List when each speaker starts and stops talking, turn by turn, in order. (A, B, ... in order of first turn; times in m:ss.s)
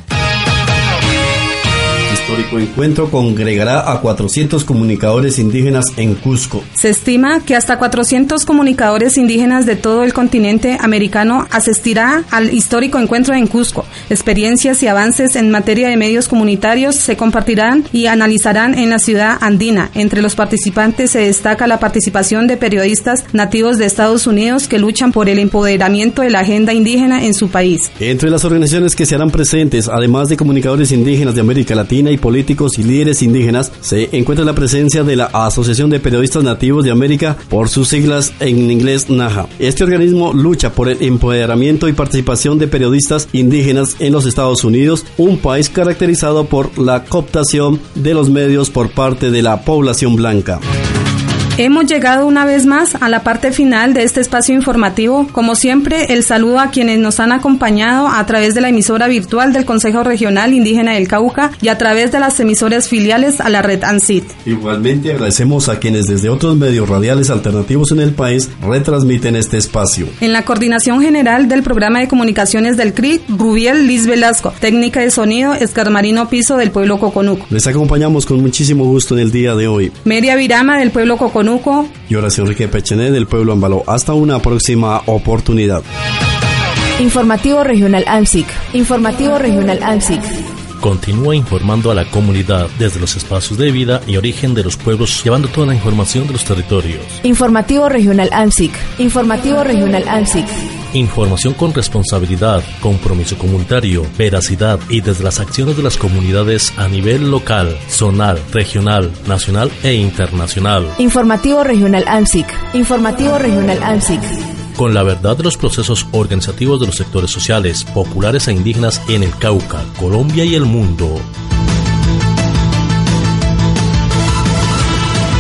0:02.1-0:06.7 A
0:06.8-0:27.9 B
0:28.0-0:50.6 A
0:51.6-1:04.3 B
1:04.4-1:10.1 A
1:10.2-1:17.5 B
1:17.5-1:20.0 A
1:20.0-1:21.9 B
1:22.1-1:25.8 A
1:27.0-1:30.3 C
1:30.8-1:37.2 D
1:37.2-1:40.5 C
1:40.9-1:51.0 D
1:51.0-1:54.3 C
1:54.8-2:01.3 D